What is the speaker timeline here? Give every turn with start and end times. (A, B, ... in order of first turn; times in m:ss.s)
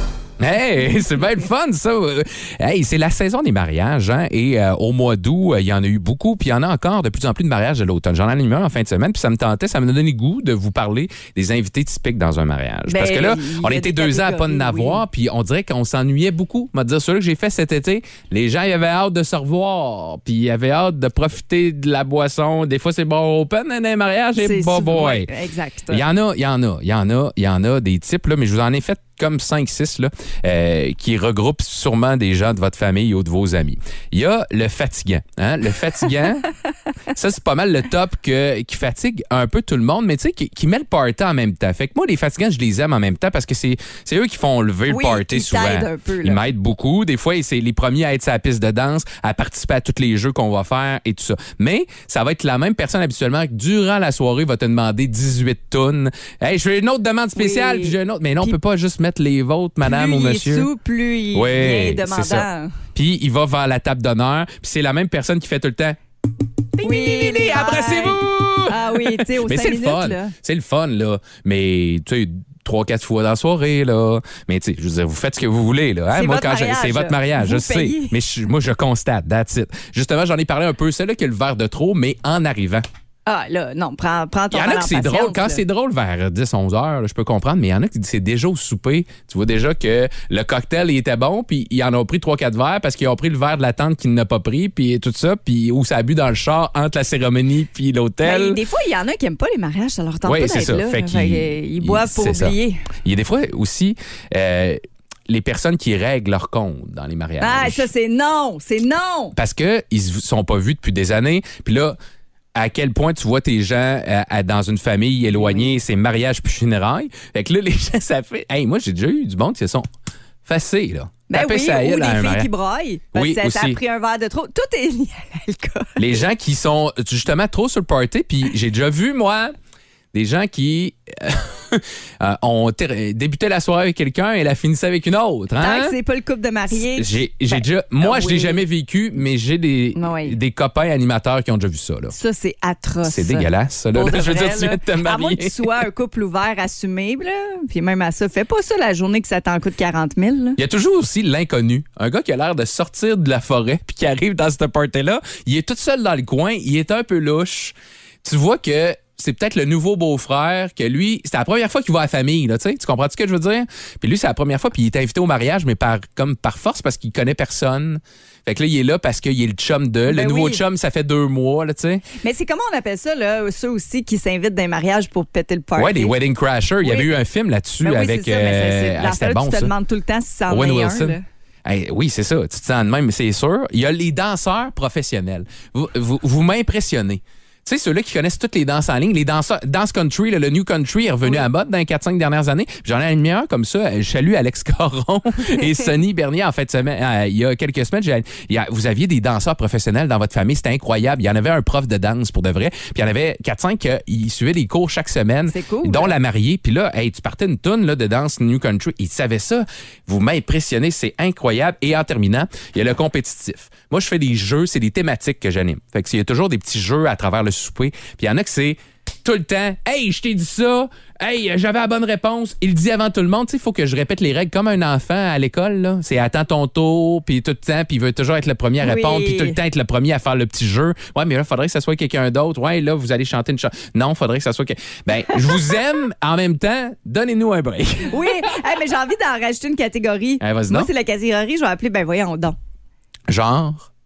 0:00.4-0:25.3 A
0:12.9-0:15.0 B
0:24.4-0:26.0 B
0:25.9-0:36.5 A
0:37.1-1:00.7 A
0:44.9-0:46.4 B
0:57.4-0:58.6 B
0:59.8-1:02.7 B
1:01.3-1:06.0 A
1:06.8-1:10.3 B
1:06.8-1:22.8 A
1:16.1-1:18.2 B
1:23.3-1:25.6 B
1:24.5-1:38.6 A
1:38.2-1:42.8 B
1:40.2-1:47.9 A
1:47.4-1:49.4 B
1:49.4-1:52.0 A
1:52.6-1:59.9 A
1:55.3-1:55.7 B
2:00.4-2:02.5 A
2:01.3-2:06.1 B
2:03.1-2:03.8 A
2:06.0-2:09.5 A
2:10.1-2:16.0 A
2:15.6-2:18.6 B
2:16.7-2:22.1 A
2:20.0-2:20.4 B
2:22.1-2:30.6 B
2:23.0-2:25.7 A
2:30.6-2:52.0 A
2:50.1-2:50.6 B
2:52.2-2:56.2 B
2:55.8-2:59.7 A
2:56.8-2:57.1 B
2:57.8-3:01.2 B
3:00.5-3:58.5 A
3:15.6-3:15.9 B
3:25.5-3:26.2 B
3:48.8-3:49.6 B
3:58.1-4:02.6 B
4:00.4-4:00.9 A
4:03.3-4:03.9 A